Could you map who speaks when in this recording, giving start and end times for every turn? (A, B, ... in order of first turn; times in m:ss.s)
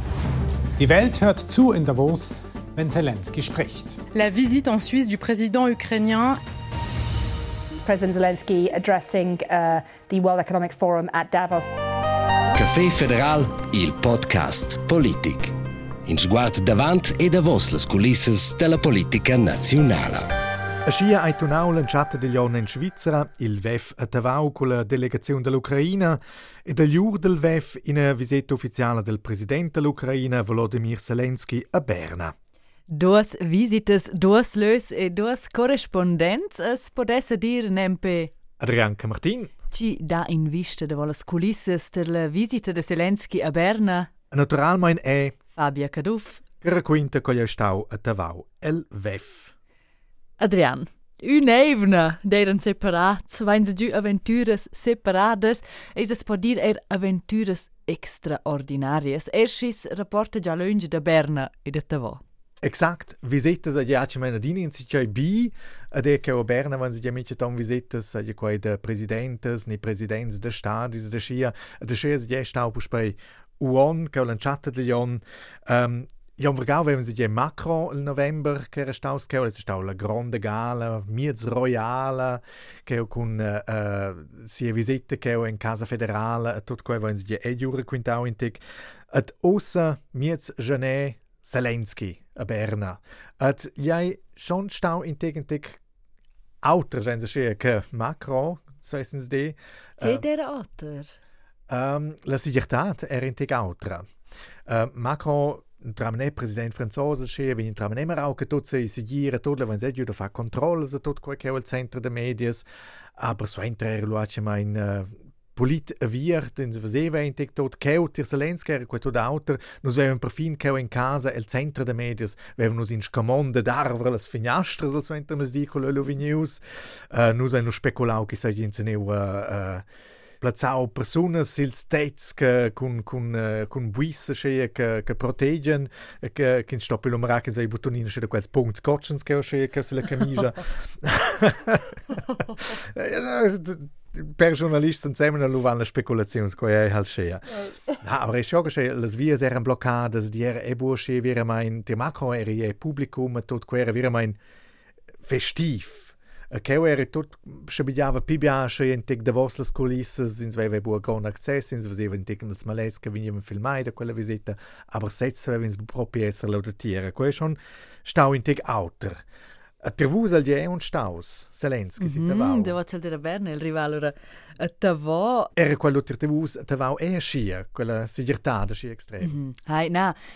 0:00.8-0:04.0 A
0:04.1-0:06.4 B
0:07.8-0:11.7 C
0:12.6-0:15.5 D
0:16.1-0:20.3 D
0:20.9-0:32.4 E
0:32.9-0:38.3 F
0:38.6-0:39.5 E
0:39.7-0:44.1 F
0:44.3-0:45.4 E
0:45.6-0:46.4 F
0:46.6-0:49.5 E
0:50.4-1:02.2 F
1:02.6-1:35.8 E
1:36.6-1:40.2 E
1:40.0-1:41.2 F
1:41.7-1:44.1 E
1:44.7-1:52.6 E
1:53.2-2:09.9 E
2:10.4-2:34.4 E
2:35.2-2:49.2 E
2:49.8-2:52.8 E
2:52.0-2:55.5 F
2:55.6-2:59.4 E
2:59.2-3:00.2 F